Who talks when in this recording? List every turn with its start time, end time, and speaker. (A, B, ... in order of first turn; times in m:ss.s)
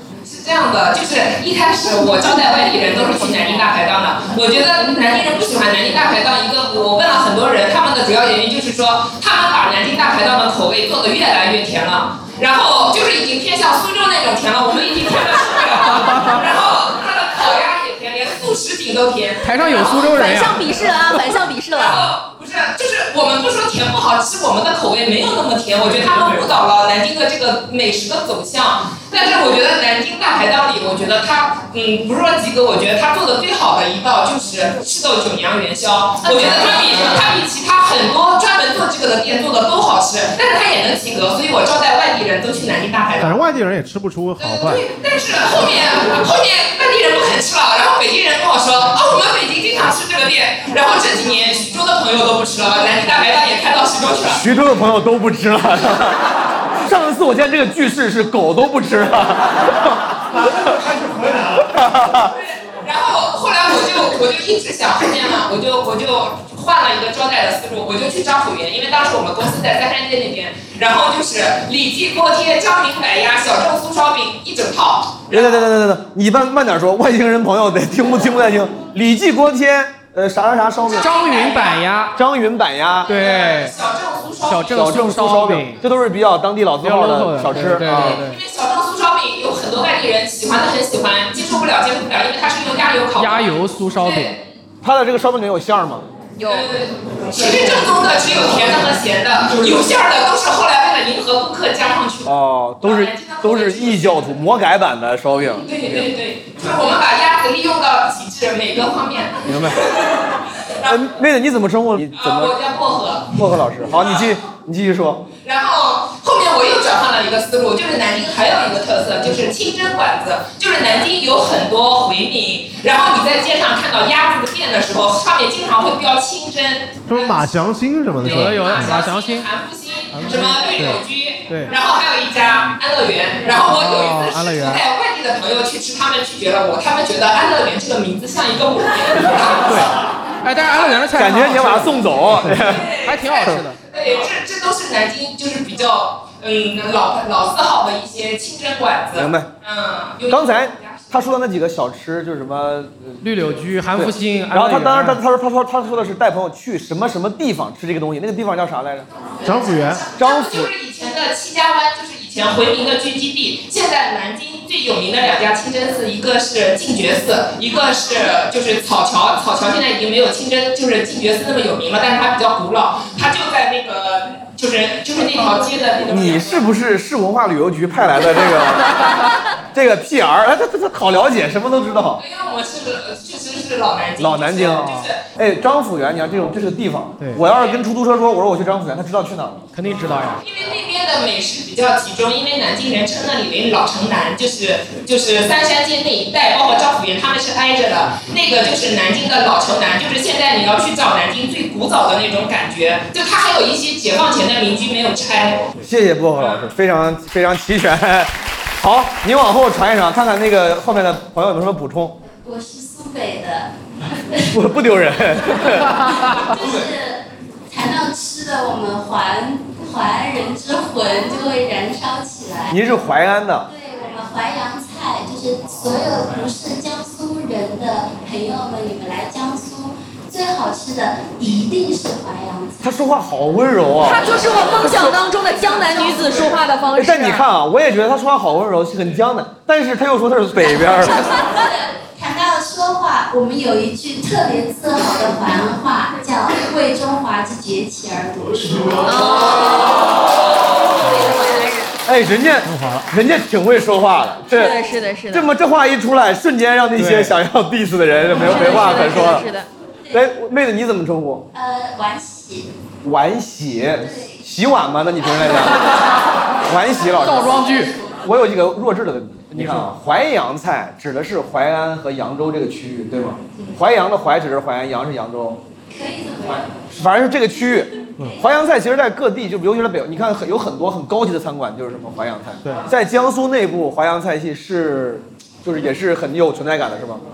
0:00.2-0:20.1 A
0:15.9-0:16.4 B
0:19.4-0:20.7 B
0:19.7-0:22.1 C
0:21.7-0:43.4 A
0:43.2-0:44.8 D
0:44.4-0:54.4 A
0:54.2-0:56.3 E
0:56.8-1:00.7 E
1:00.4-1:01.7 D
1:01.6-1:02.3 E
1:02.2-1:15.6 A
1:15.3-1:21.1 E
1:20.9-1:21.8 A
1:21.0-1:22.2 B
1:22.1-1:23.1 E
1:23.1-1:23.7 B
1:23.1-1:24.9 A
1:24.5-1:25.8 B
1:24.7-1:28.2 E
1:26.8-1:28.4 B
1:27.9-1:34.4 A
1:33.2-1:34.4 B
1:34.8-1:36.0 E
1:36.4-1:36.8 C
1:36.4-1:44.4 A
1:42.2-1:46.1 E
1:45.6-1:50.2 A
1:49.4-1:49.9 E
1:50.8-1:52.5 E
1:52.1-1:53.4 A
1:53.3-1:55.2 E
1:53.9-1:54.3 A
1:55.4-2:07.5 A
2:07.1-2:09.0 D
2:08.2-2:20.0 A
2:08.2-2:09.5 B
2:10.1-2:11.0 D
2:10.2-2:10.5 B
2:11.5-2:11.7 B
2:13.6-2:14.8 B
2:20.4-2:23.8 B
2:21.1-2:22.9 E
2:22.5-2:31.2 A
2:29.1-2:29.5 E
2:30.3-2:33.2 E
2:33.2-2:35.2 B
2:33.9-2:39.1 E
2:39.2-2:56.6 A
2:39.4-2:40.1 D
2:40.1-2:40.7 E
2:56.1-2:59.0 E
2:59.7-3:02.2 E
3:02.2-3:05.2 A
3:04.2-3:09.6 E
3:07.4-3:07.8 A
3:09.7-3:10.4 B
3:10.4-3:25.7 A
3:25.8-3:32.2 E
3:32.2-3:34.8 F
3:34.5-3:36.0 E
3:35.4-3:42.9 F
3:42.7-3:43.7 E
3:43.6-3:53.1 F
3:52.8-3:54.4 E
3:54.0-3:57.4 C
3:56.9-4:01.3 E
4:01.0-4:09.9 F
4:01.2-4:01.5 C
4:09.0-4:10.0 C
4:11.0-4:11.9 C
4:12.0-4:19.5 E
4:12.6-4:13.1 D
4:14.5-4:15.5 C
4:17.0-4:17.3 B
4:18.3-4:19.7 C
4:20.1-4:21.5 E
4:21.5-4:22.7 F
4:23.0-4:26.1 E
4:23.9-4:24.4 F
4:26.6-4:27.7 E
4:27.2-4:27.9 B
4:28.2-4:35.6 E
4:29.5-4:29.9 B
4:35.9-4:36.8 F
4:36.5-4:47.2 E